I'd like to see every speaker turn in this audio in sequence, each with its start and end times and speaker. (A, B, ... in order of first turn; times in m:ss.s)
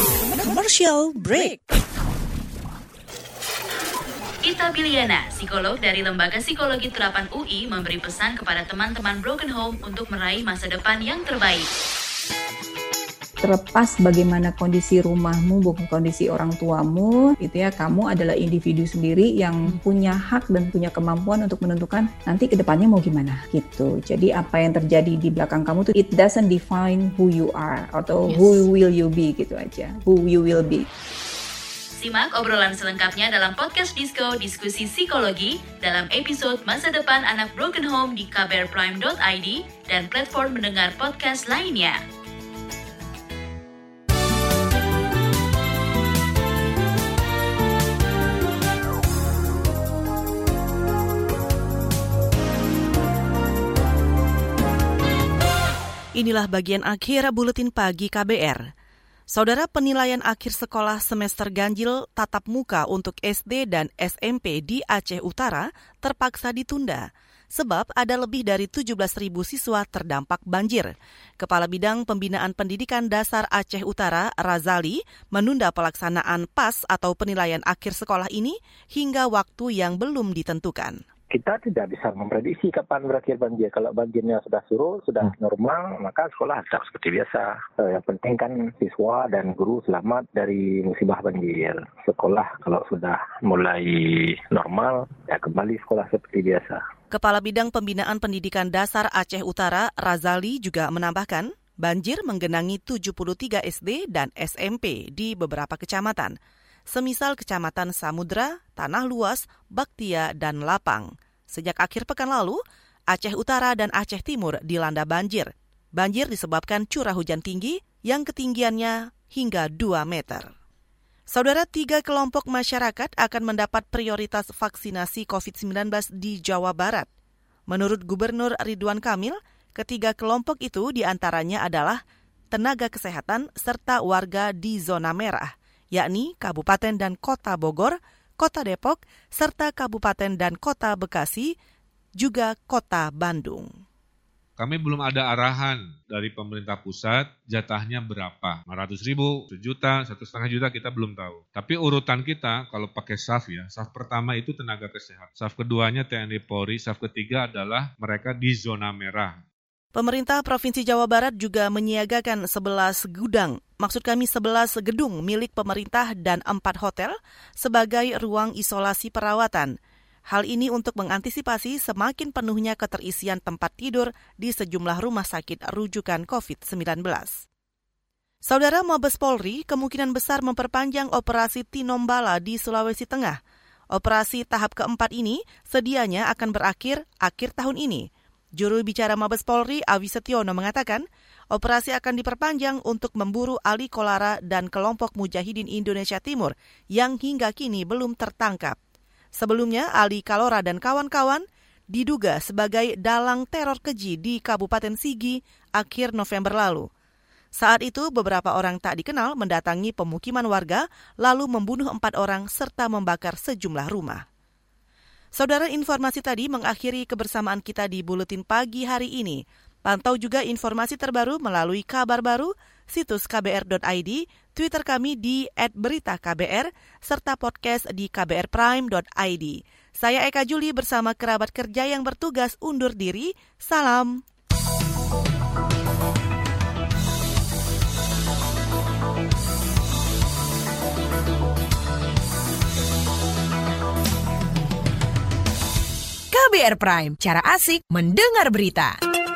0:00.3-0:01.6 A
0:04.4-0:11.7 B
0:13.4-0:30.9 C
0:32.0-0:42.0 B
0:56.2-0:58.7 D
0:59.3-1:21.0 D
1:21.3-1:36.8 E
1:37.1-1:46.4 D
1:46.9-2:00.5 D
2:01.3-2:07.1 D
2:07.7-2:12.0 D
2:12.5-2:21.5 D
2:22.2-2:23.7 D
2:24.6-2:39.4 F
2:40.0-2:49.7 D
2:50.3-2:57.5 D
2:58.4-3:03.4 D
3:03.9-3:18.8 D
3:19.4-3:26.9 D
3:27.6-3:34.2 D
3:35.4-3:54.2 D
4:06.3-4:09.0 A